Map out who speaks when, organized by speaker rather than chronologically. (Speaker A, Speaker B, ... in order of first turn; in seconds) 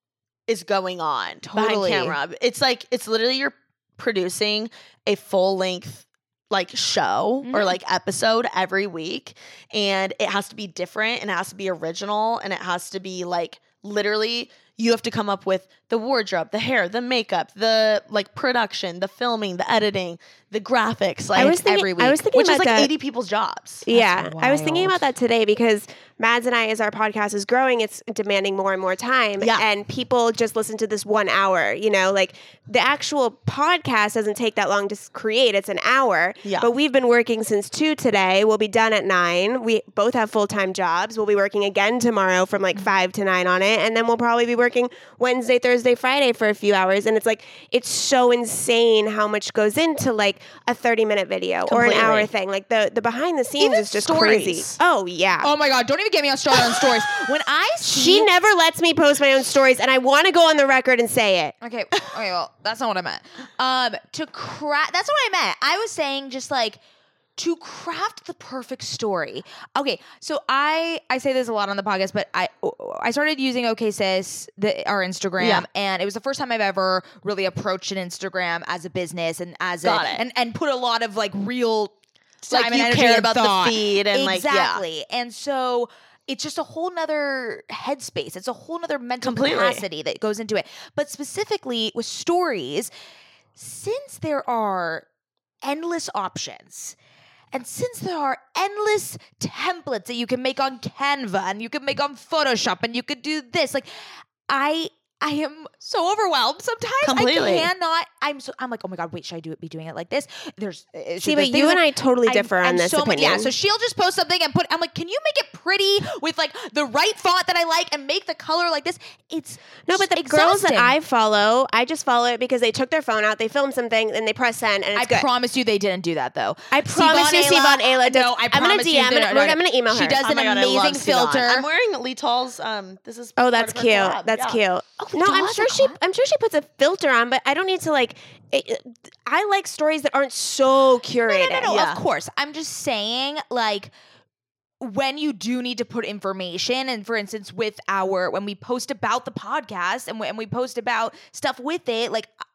Speaker A: 0.5-21.6, 22.3-23.8, 29.4-29.6, 36.4-36.7, 51.7-52.3, 53.6-54.8, 75.4-75.6, 79.8-80.2, 82.5-84.8, 89.2-89.8, 107.0-107.7, 130.2-134.6, 141.7-142.0
Speaker B: 1.4-2.2, 7.4-7.8, 21.4-22.2, 23.9-25.0, 55.4-58.3, 61.6-66.8, 67.4-92.9, 93.5-95.0, 95.6-97.0, 97.5-120.9, 124.9-131.7, 135.0-135.9, 141.2-143.9, 144.8-152.3
Speaker C: 21.4-22.9, 23.8-55.5, 57.8-61.5, 111.2-113.5, 119.9-125.3, 126.7-130.2, 133.4-141.7